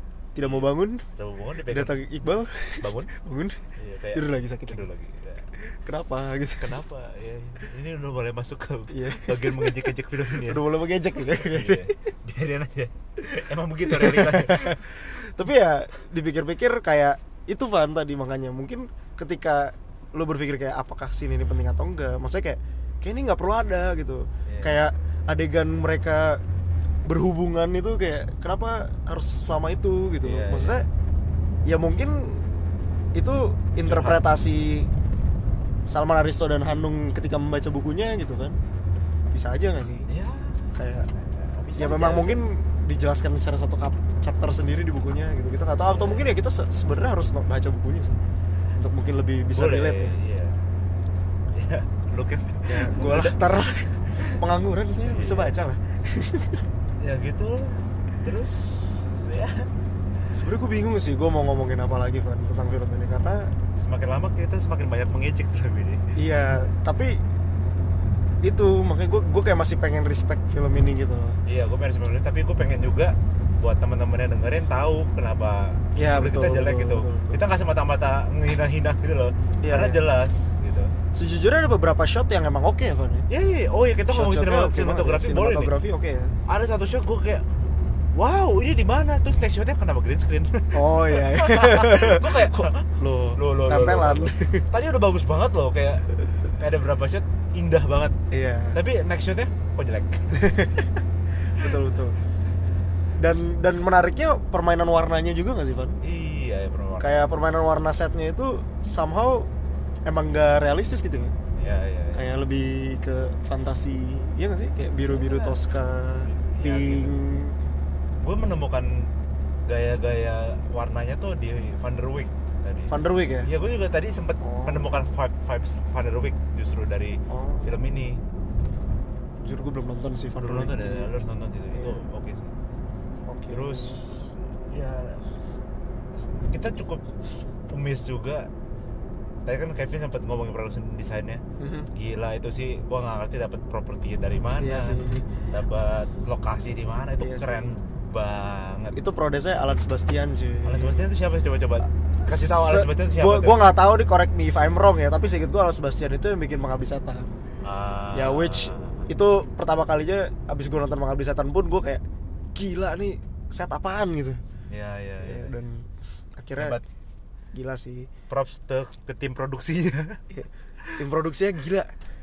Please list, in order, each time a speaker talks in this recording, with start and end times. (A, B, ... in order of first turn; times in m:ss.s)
0:00.3-0:01.0 A
0:00.4-0:02.0 B
0:01.7-0:03.6 A
0:02.8-0:03.1 B
0:03.8-0:05.6 B
0:04.1-0:04.8 A
0:05.7-0:06.7 A
0:06.6-0:10.6 B
0:08.9-0:12.0 A
0:11.2-0:15.2 B
0:13.8-0:26.4 A
0:24.5-0:24.8 B
0:27.0-0:30.8 A
0:30.2-0:30.8 B
0:31.6-0:32.4 A
0:33.1-0:34.9 A
0:33.8-0:34.2 B
0:35.9-0:38.6 A
0:39.3-0:40.1 A
0:40.1-0:42.4 B
0:40.7-0:41.1 A
0:41.8-0:48.2 A
0:45.8-0:46.3 B
0:48.8-0:50.1 A
0:49.5-0:50.6 B
0:51.5-0:53.5 B
0:52.6-0:56.6 A
0:55.1-0:55.5 B
0:57.0-0:59.7 B
1:00.3-1:03.5 A
1:03.8-1:06.2 B
1:06.2-1:07.2 A
1:08.4-1:11.4 A
1:11.4-1:20.9 B
1:16.0-1:17.4 A
1:19.6-1:20.0 A
1:21.1-1:23.2 A
1:23.3-1:25.7 B
1:24.1-1:26.3 A
1:26.5-1:27.4 B
1:28.1-1:38.2 B
1:30.7-1:34.6 A
1:38.3-1:38.8 A
1:38.7-1:40.8 B
1:40.4-1:40.8 A
1:41.6-1:42.2 A
1:43.2-1:46.0 A
1:46.0-1:47.3 B
1:47.0-1:49.5 A
1:50.0-1:51.3 A
1:51.6-1:52.3 B
1:52.1-1:57.6 A
1:55.0-1:55.6 B
1:56.3-1:57.2 B
1:58.2-1:59.1 B
1:59.7-2:08.2 B
2:02.9-2:03.5 A
2:04.4-2:05.0 A
2:07.3-2:07.7 A
2:09.4-2:11.1 A
2:10.4-2:12.5 B
2:11.7-2:12.0 A
2:13.2-2:14.0 A
2:13.5-2:15.2 B
2:16.2-2:17.0 B
2:17.7-2:18.5 B
2:19.4-2:21.4 B
2:21.6-2:21.9 A
2:21.9-2:28.9 B
2:24.6-2:25.2 A
2:27.2-2:27.7 A
2:28.9-2:31.1 A
2:30.6-2:33.6 B
2:32.1-2:37.3 A
2:37.6-2:39.1 B
2:38.1-2:42.0 A
2:42.5-2:44.4 A
2:44.7-2:45.5 B
2:45.2-2:46.8 A
2:46.6-2:46.8 B
2:47.5-2:48.1 A
2:48.3-2:50.2 B
2:50.3-2:51.9 A